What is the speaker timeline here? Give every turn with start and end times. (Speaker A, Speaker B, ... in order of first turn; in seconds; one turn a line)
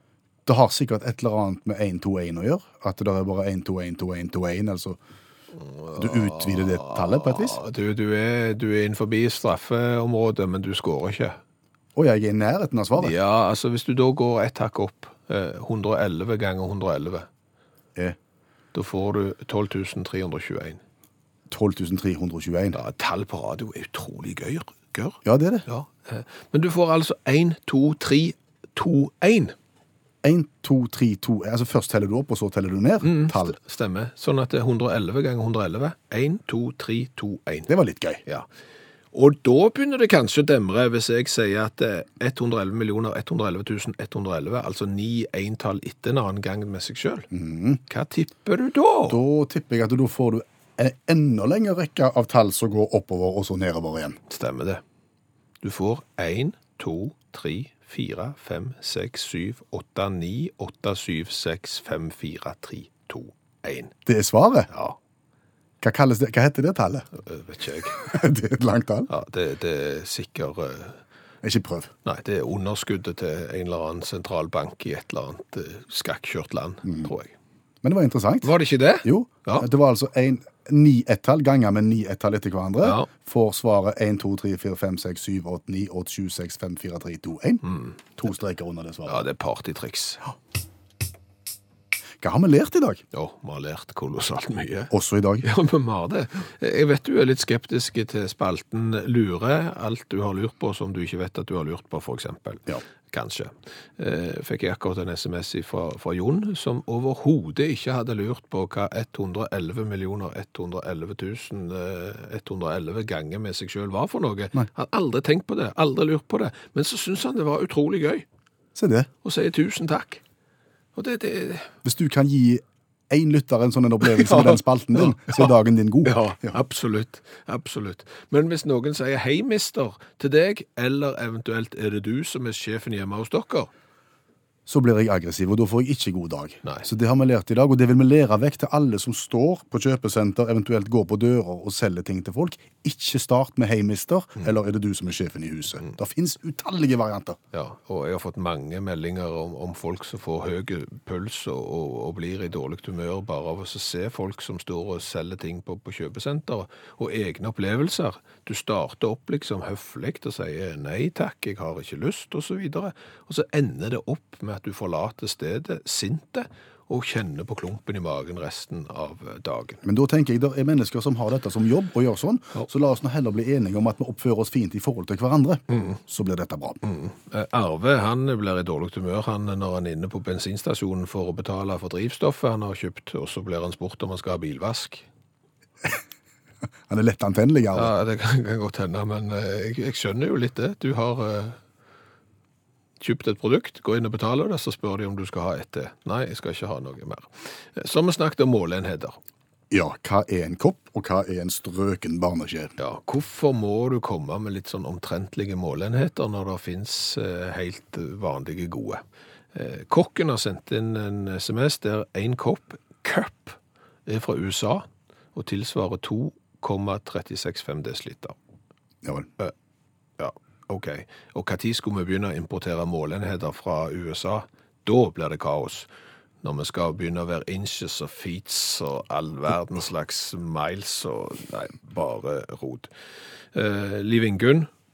Speaker A: 0.5-5.0
Speaker B: 5.6-11.4
Speaker A: 5.9-7.6
Speaker A: 11.9-13.1
Speaker B: 13.0-17.3
Speaker B: 18.7-20.8
Speaker A: 21.5-22.8
Speaker B: 22.7-29.5
Speaker A: 25.2-25.6
Speaker A: 30.2-33.5
Speaker B: 33.0-37.7
Speaker A: 37.7-38.2
Speaker B: 39.1-47.3
Speaker A: 47.3-47.8
Speaker B: 47.9-49.2
Speaker A: 49.1-54.2
Speaker B: 54.3-54.8
Speaker B: 55.6-63.9
Speaker A: 64.0-64.7
Speaker B: 64.7-65.0
Speaker A: 65.8-67.1
Speaker B: 67.1-68.0
Speaker A: 67.9-69.1
Speaker B: 69.1-71.0
Speaker A: 71.4-71.9
Speaker B: 72.0-77.3
Speaker A: 76.8-77.1
Speaker A: 77.8-78.5
Speaker B: 78.4-79.7
Speaker A: 79.0-89.2
Speaker B: 82.8-83.1
Speaker B: 87.6-88.0
Speaker B: 89.1-90.2
Speaker A: 92.2-93.0
Speaker B: 93.1-118.2
Speaker A: 94.9-95.4
Speaker A: 118.7-119.1
Speaker B: 119.2-120.2
Speaker B: 120.9-121.7
Speaker A: 121.8-126.6
Speaker B: 124.0-133.7
Speaker A: 134.7-147.4
Speaker B: 147.5-169.8
Speaker A: 169.8-176.8
Speaker B: 175.7-176.0
Speaker B: 176.8-185.1
Speaker A: 186.9-187.9
Speaker B: 187.7-191.6
Speaker B: 193.0-199.2
Speaker A: 199.7-202.7
Speaker B: 202.8-209.0
Speaker B: 209.5-218.3
Speaker B: 220.2-225.9
Speaker B: 226.4-232.9
Speaker B: 233.5-234.7